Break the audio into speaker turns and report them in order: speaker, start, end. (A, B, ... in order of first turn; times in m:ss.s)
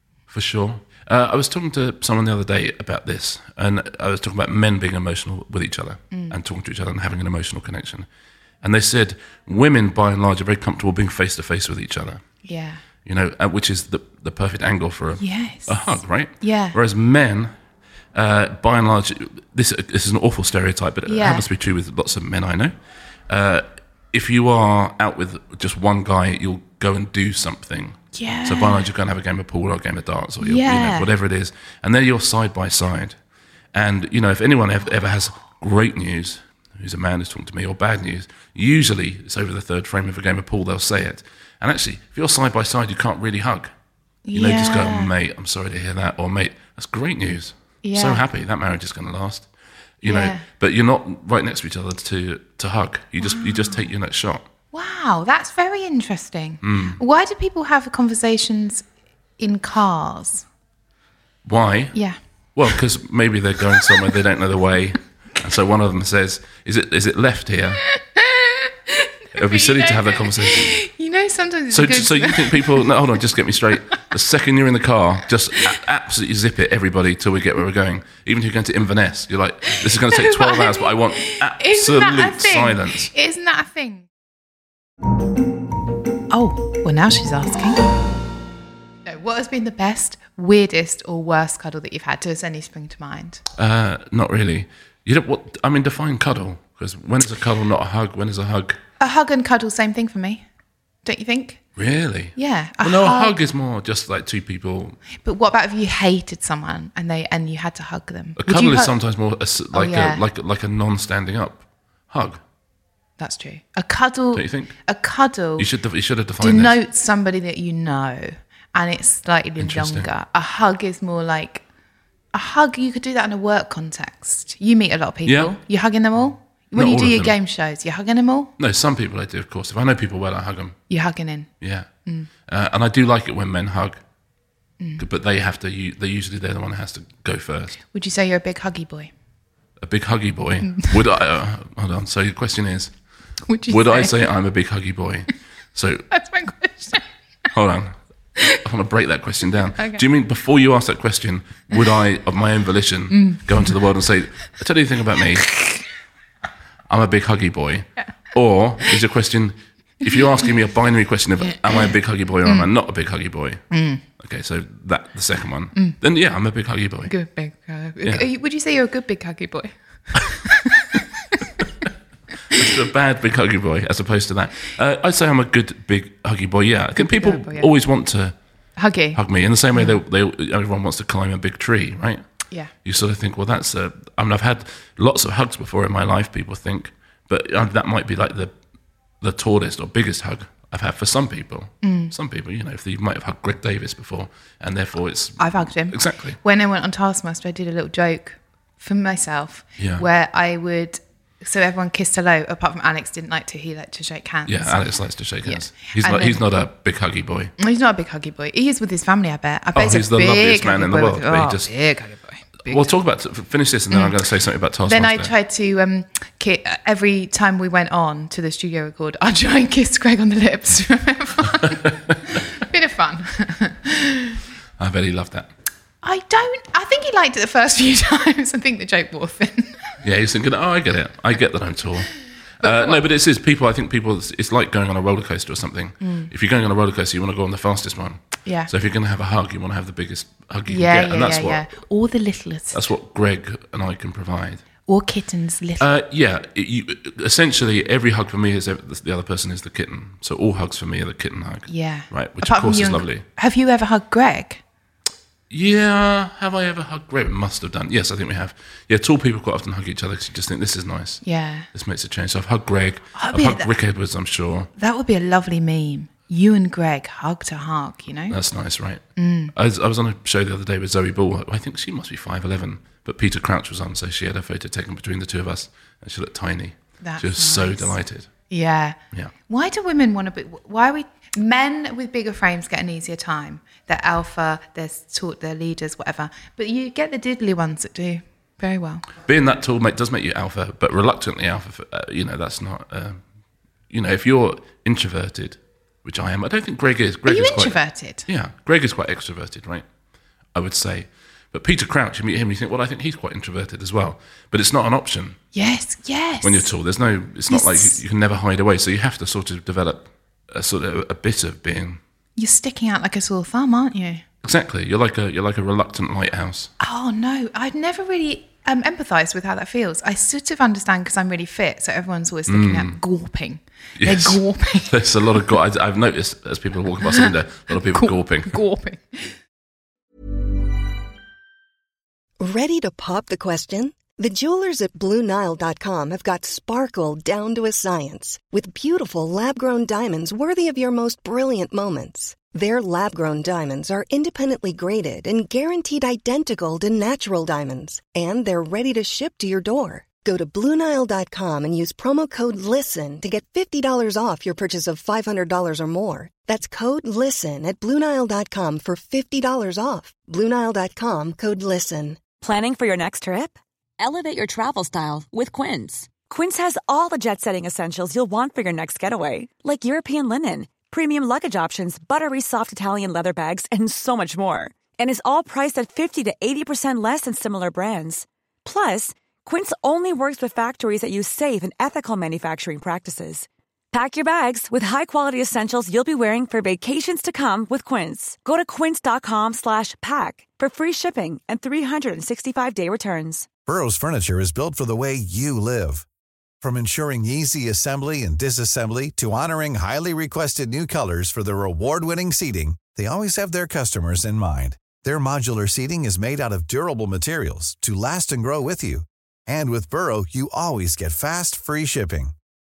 0:00.3-0:08.1 A
0:06.1-0:06.4 B
0:08.6-0:12.2 A
0:12.4-0:12.8 B
0:13.0-0:17.5 A
0:15.2-0:16.8 B
0:18.1-0:22.7 A
0:21.1-0:21.4 B
0:23.3-0:33.2 A
0:28.1-0:28.8 B
0:30.4-0:31.1 B
0:33.7-0:43.7 A
0:44.2-0:45.1 B
0:44.3-0:49.5 A
0:47.8-0:48.2 B
0:50.0-0:54.4 A
0:50.0-0:50.4 B
0:53.2-0:53.9 B
0:54.7-0:58.8 B
0:56.6-0:57.0 A
0:59.4-1:00.4 B
1:01.4-1:02.0 A
1:02.6-1:07.8 A
1:08.0-1:12.9 B
1:09.3-1:10.7 A
1:11.7-1:23.1 A
1:19.8-1:24.0 B
1:26.3-1:27.8 B
1:29.0-1:33.4 B
1:33.6-1:38.8 A
1:39.0-1:40.4 B
1:41.0-1:41.6 B
1:41.8-1:45.0 A
1:42.4-1:43.4 B
1:45.2-1:48.9 B
1:48.4-1:52.4 A
1:49.7-1:50.2 B
1:53.2-1:55.7 B
1:54.3-1:54.8 A
1:55.6-1:56.7 A
1:56.4-2:01.6 B
1:59.6-2:00.1 A
2:02.3-2:08.5 B
2:05.2-2:05.5 A
2:06.7-2:07.4 A
2:08.6-2:10.8 A
2:10.9-2:11.5 B
2:11.6-2:11.9 A
2:12.5-2:14.0 A
2:14.8-2:15.0 B
2:15.0-2:17.8 A
2:17.9-2:19.1 B
2:19.8-2:22.9 A
2:23.5-2:24.2 B
2:23.7-2:26.1 A
2:26.1-2:27.0 B
2:27.5-2:27.9 A
2:28.5-2:35.5 A
2:33.1-2:33.7 B
2:36.9-2:43.6 A
2:43.7-2:44.0 B
2:44.2-2:47.1 A
2:47.1-2:51.0 B
2:52.5-2:58.3 A
2:57.0-2:57.7 B
2:58.8-2:59.2 B
2:59.1-3:02.2 A
2:59.7-3:00.0 B
3:02.8-3:08.5 A
3:09.2-3:16.4 A
3:11.8-3:12.1 B
3:15.4-3:24.8 B
3:19.8-3:20.0 A
3:24.4-3:27.5 A
3:25.4-3:26.4 B
3:27.6-3:32.8 B
3:29.7-3:31.7 A
3:32.6-3:35.3 A
3:34.8-3:44.4 B
3:44.8-3:45.5 A
3:46.0-3:49.9 B
3:50.0-4:01.6 A
3:52.6-3:53.0 B
3:56.0-3:56.3 B
3:58.4-3:58.7 B
4:00.7-4:02.8 B
4:02.7-4:04.6 A
4:04.9-4:05.8 B
4:05.8-4:13.2 A
4:11.7-4:14.6 B
4:15.5-4:24.7 A
4:21.2-4:21.7 B
4:23.2-4:23.7 B
4:24.8-4:28.4 B
4:28.3-4:29.0 A
4:29.2-4:29.5 B
4:29.5-4:38.3 A
4:37.0-4:38.0 B
4:38.5-4:49.1 B
4:49.2-4:53.2 A
4:53.9-4:59.8 A
4:57.3-4:58.2 B
5:00.5-5:05.4 A
5:05.5-5:06.7 B
5:06.4-5:12.0 A
5:07.5-5:08.0 B
5:12.4-5:14.2 B
5:14.4-5:16.7 A
5:16.8-5:24.9 B
5:22.5-5:23.0 A
5:24.0-5:28.6 A
5:27.1-5:29.4 B
5:32.4-6:02.2 C
6:02.4-6:33.5 D
6:33.7-6:36.0 E
6:36.6-6:52.3 E